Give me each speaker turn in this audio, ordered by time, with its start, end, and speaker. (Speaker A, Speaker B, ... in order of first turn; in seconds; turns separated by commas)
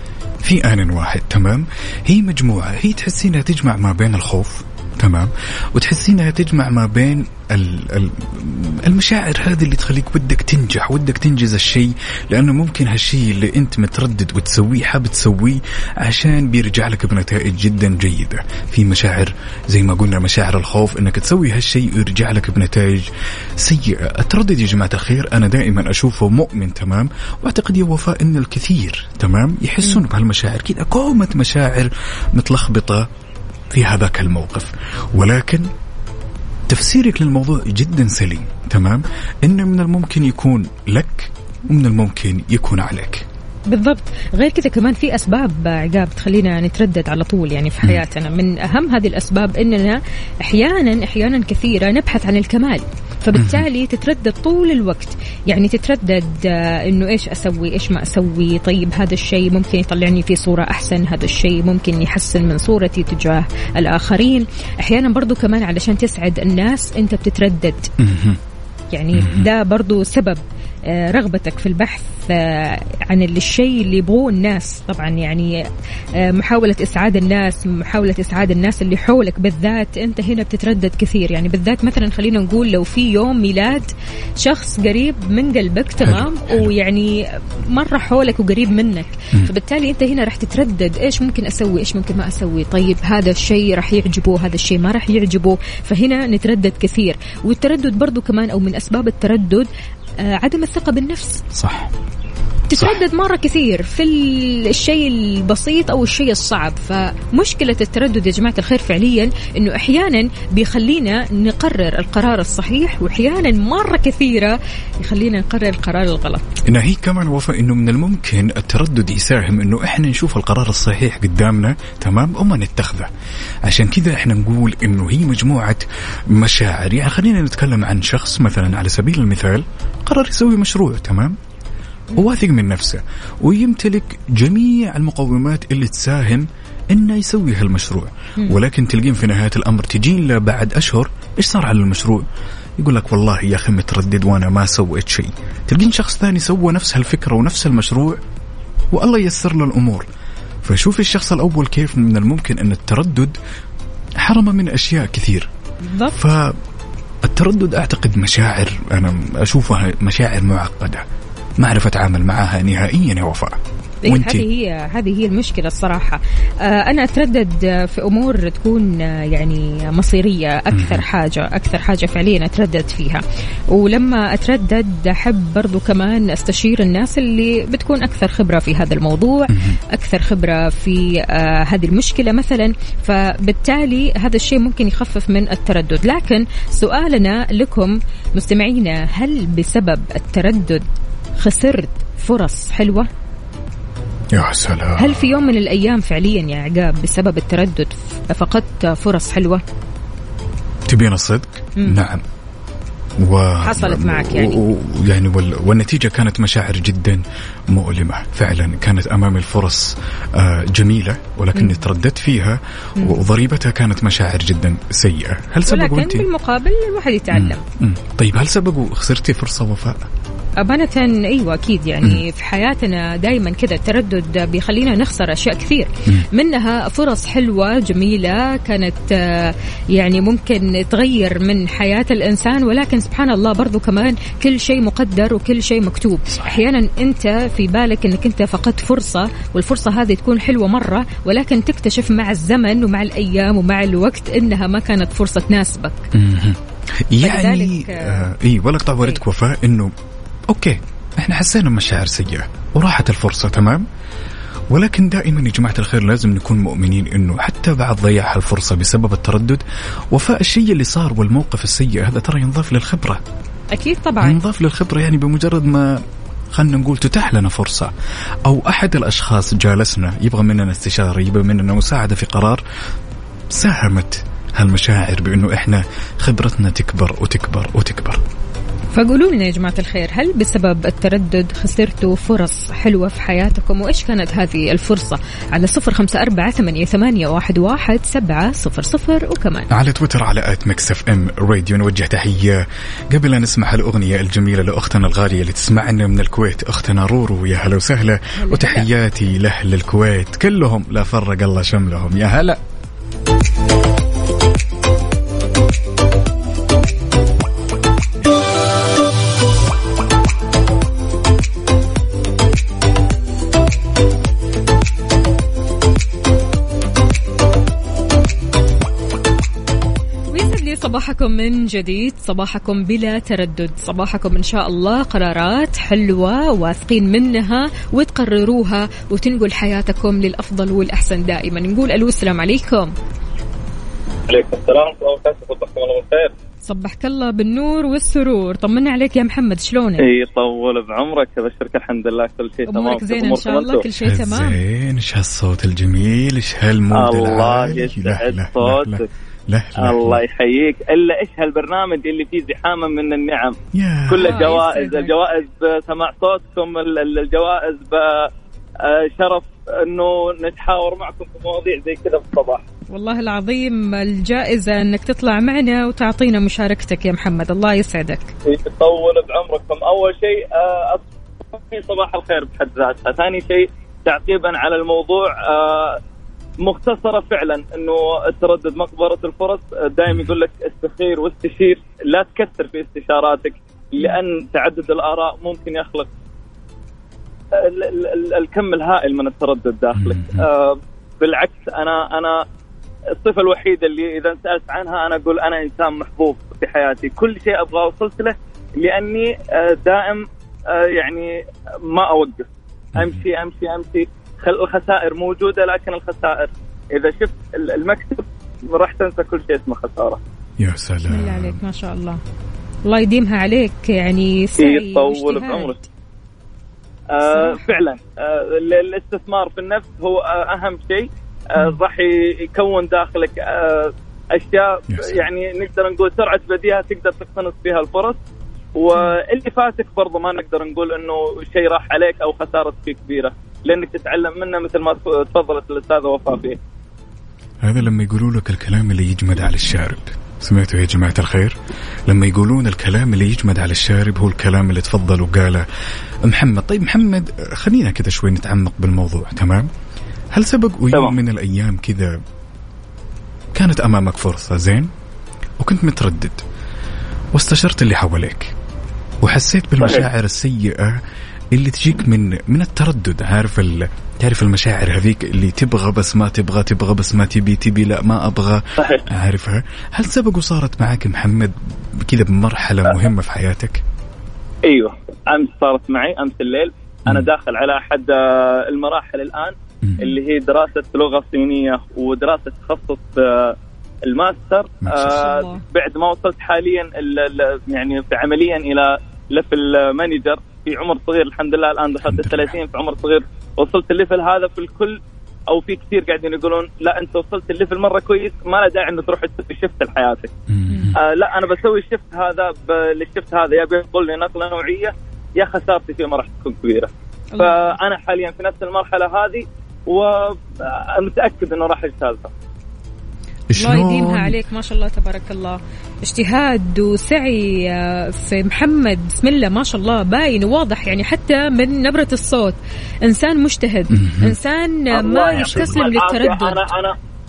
Speaker A: 0.4-33.1, Speaker A: 33.7-35.7, Speaker A: 36.7-43.3, Speaker B: 43.7-67.9, Speaker A: 53.4-53.6, Speaker A: 68.0-68.4, Speaker B: 68.9-75.6, Speaker A: 69.2-69.5, Speaker B: 76.2-99.7, Speaker A: 86.0-86.7, Speaker B: 100.2-101.5, Speaker A: 101.5-101.9, Speaker B: 102.7-116.4, Speaker A: 102.7-103.0, Speaker A: 116.7-123.1, Speaker A: 123.7-131.4, Speaker A: 132.2-142.2, Speaker A: 142.8-148.2, Speaker A: 148.9-150.1, Speaker A: 150.6-153.4, Speaker A: 154.2-155.5, Speaker B: 155.8-156.2, Speaker A: 156.1-156.6, Speaker A: 157.2-161.0, Speaker A: 161.6-164.5, Speaker B: 164.0-190.8, Speaker A: 170.7-171.0, Speaker A: 179.5-179.8, Speaker B: 191.4-193.1, Speaker A: 194.3-195.3, Speaker B: 195.0-199.6, Speaker A: 200.9-202.2, Speaker A: 203.2-216.3, Speaker B: 203.6-204.6, Speaker B: 211.6-211.8, Speaker B: 215.7-217.6, Speaker A: 217.3-220.1, Speaker B: 220.6-246.1, Speaker A: 236.3-236.6, Speaker A: 246.1-246.6, Speaker A: 247.1-249.9, Speaker B: 247.2-248.2, Speaker A: 250.5-253.9, Speaker A: 254.7-263.2, Speaker B: 263.7-264.4, Speaker A: 264.2-267.9, Speaker A: 268.5-272.6, Speaker A: 273.5-278.2, Speaker B: 278.9-289.7, Speaker A: 289.7-302.6, Speaker B: 298.4-298.9, Speaker B: 320.3-332.9, Speaker C: 334.3-336.3, Speaker B: 336.6-340.1, Speaker C: 340.0-343.9, Speaker B: 342.7-344.6, Speaker A: 344.0-350.2, Speaker C: 346.9-349.1, Speaker C: 349.8-353.6, Speaker A: 353.7-354.5, Speaker C: 354.1-358.3, Speaker B: 354.2-355.1, Speaker C: 358.8-362.6, Speaker B: 362.9-368.4, Speaker C: 368.5-376.0, Speaker C: 376.6-386.1, Speaker C: 387.5-392.4, Speaker A: 389.9-390.5, Speaker C: 393.2-401.3, Speaker C: 401.9-410.2, Speaker A: 403.0-403.2, Speaker A: 410.6-411.6, Speaker B: 411.1-412.2, Speaker B: 412.9-415.9, Speaker C: 414.6-415.8, Speaker C: 417.1-428.2, Speaker B: 417.2-417.8, Speaker A: 424.9-425.2, Speaker C: 428.8-436.6, Speaker A: 437.6-445.6, Speaker A: 446.2-449.7, Speaker A: 450.3-452.1, Speaker A: 453.5-454.9, Speaker A: 455.6-456.4, Speaker A: 457.3-458.6, Speaker A: 459.2-461.0, Speaker C: 459.8-460.1, Speaker A: 461.5-473.8, Speaker C: 468.8-469.0, Speaker C: 474.7-483.6, Speaker A: 479.8-480.1, Speaker C: 484.1-495.0, Speaker A: 484.8-485.3, Speaker B: 485.0-485.6, Speaker A: 492.1-492.6, Speaker C: 495.5-500.3, Speaker A: 500.5-501.0, Speaker B: 500.7-500.9, Speaker C: 501.0-512.3, Speaker B: 507.3-507.7, Speaker A: 513.5-514.4, Speaker B: 513.6-526.7, Speaker A: 523.9-524.4, Speaker C: 524.9-527.0, Speaker A: 525.3-525.8